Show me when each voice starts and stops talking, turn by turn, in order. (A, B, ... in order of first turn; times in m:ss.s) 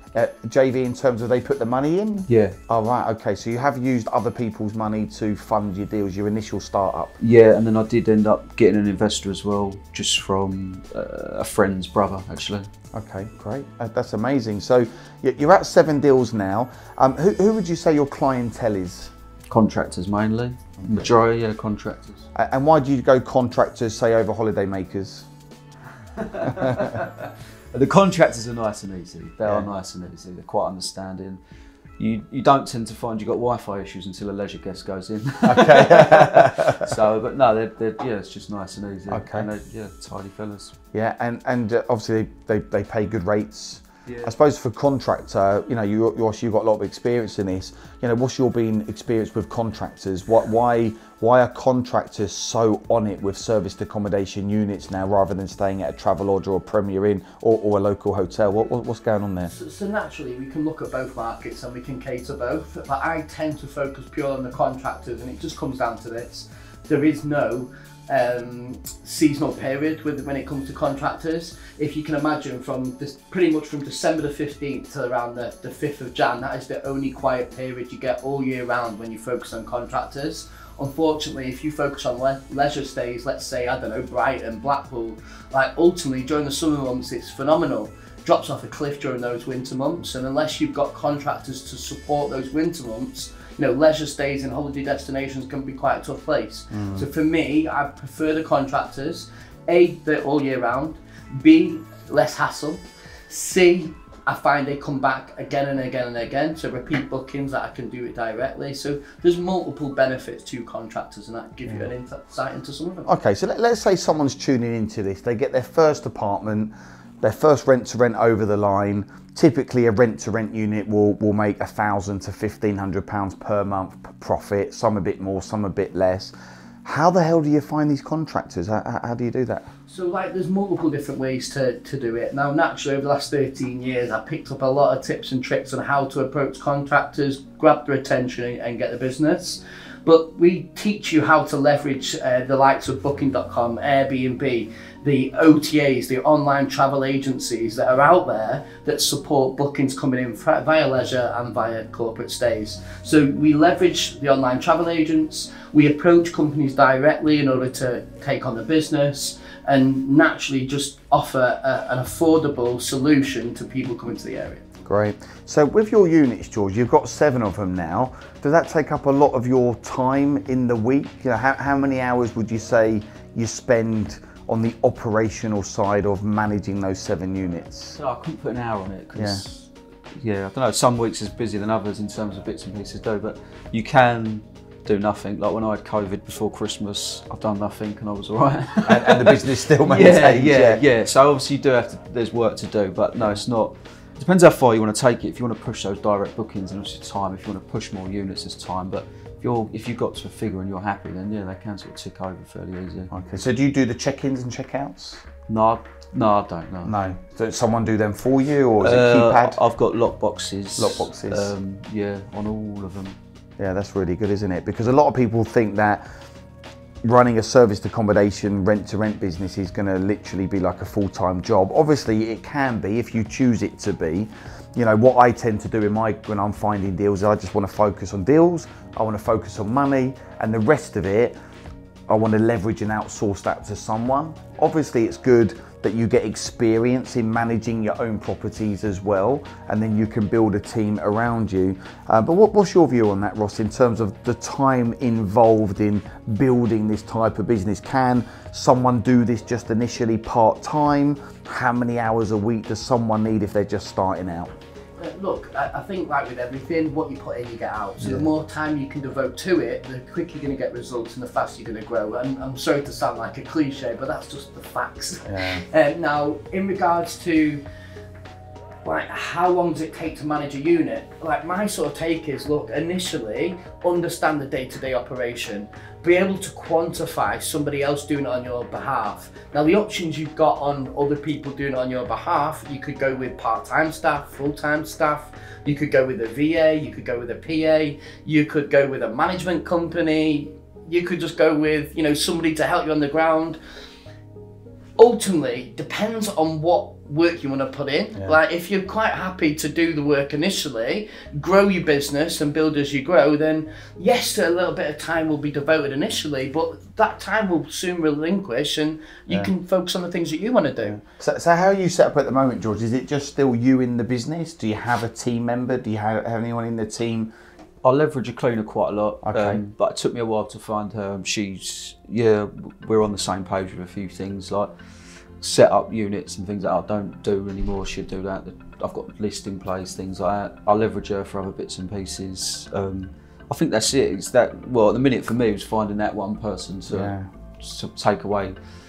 0:00.1-0:07.2 A
0:02.3-0:02.6 B
0:07.2-0:12.7 B
0:12.9-0:19.1 A
0:19.5-0:22.2 B
0:20.8-0:21.1 A
0:22.3-0:25.3 A
0:26.2-0:31.4 B
0:26.4-0:27.0 A
0:32.0-0:40.7 B
0:35.4-0:36.9 A
0:39.1-0:39.5 A
0:40.9-0:59.5 A
0:44.0-0:44.3 B
0:59.5-1:53.1 C
1:36.7-1:37.1 A
1:53.0-2:06.3 A
2:06.8-2:09.7 A
2:09.9-2:44.6 C
2:44.8-2:58.0 A
2:57.9-3:23.1 B
2:59.2-2:59.4 A
3:08.8-3:10.8 A
3:23.1-3:25.2 A
3:25.5-3:26.9 B
3:26.8-3:29.6 A
3:28.8-3:33.2 B
3:30.8-3:31.5 A
3:33.6-3:36.0 A
3:37.0-3:51.4 A
3:52.1-4:14.5 A
4:15.0-4:27.6 C
4:18.0-4:18.3 A
4:25.2-4:25.6 A
4:28.8-4:53.6 C
4:55.0-5:11.0 C
5:10.8-5:17.3 A
5:17.8-5:24.7 B
5:19.2-5:19.6 A
5:25.4-5:38.6 B
5:36.9-5:37.3 A